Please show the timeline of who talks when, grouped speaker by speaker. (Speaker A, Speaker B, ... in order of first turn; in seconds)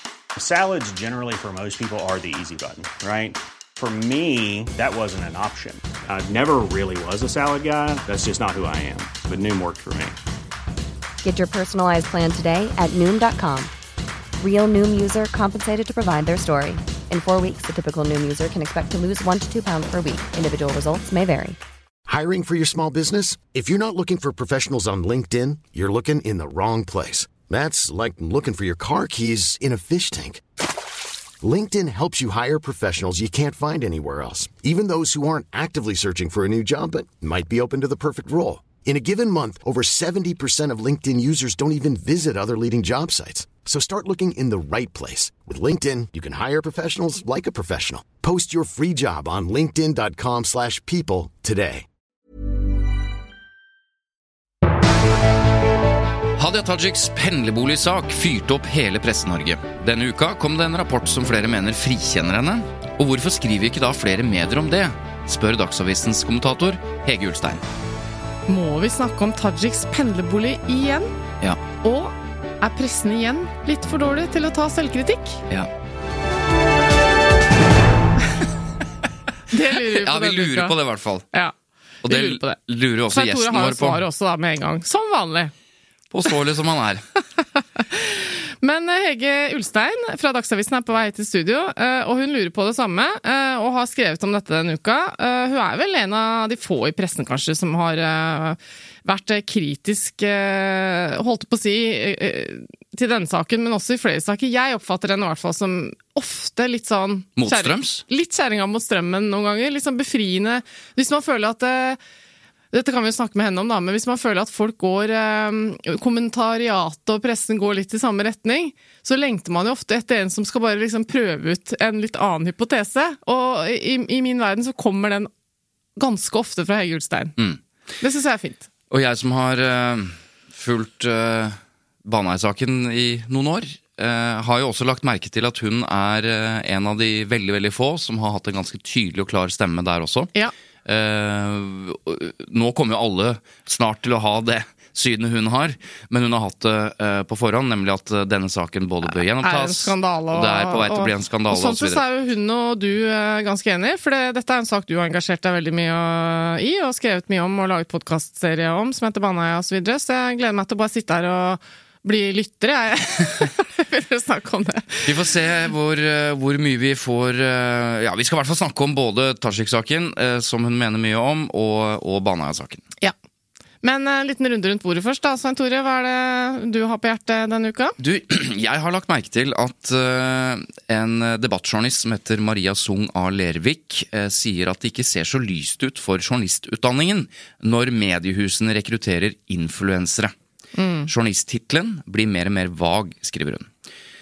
Speaker A: 0.4-10.2
Speaker B: 11.2-13.7, 14.4-21.6
Speaker C: 22.1-30.4, 31.4-51.9
Speaker D: 56.4-67.6, 79.9-81.2, 82.0-84.0, 86.1-87.0, 107.3-108.0, 128.9-140.3, 140.8-152.0, 165.0-172.8, 178.0-190.3, 191.1-193.7
Speaker E: 68.5-71.2, 71.8-75.4, 79.5-80.8, 81.3-82.6, 83.1-85.5, 87.4-112.0, 112.7-125.3, 126.0-127.3, 128.0-128.6, 149.1-165.1, 173.8-177.9, 190.8-191.1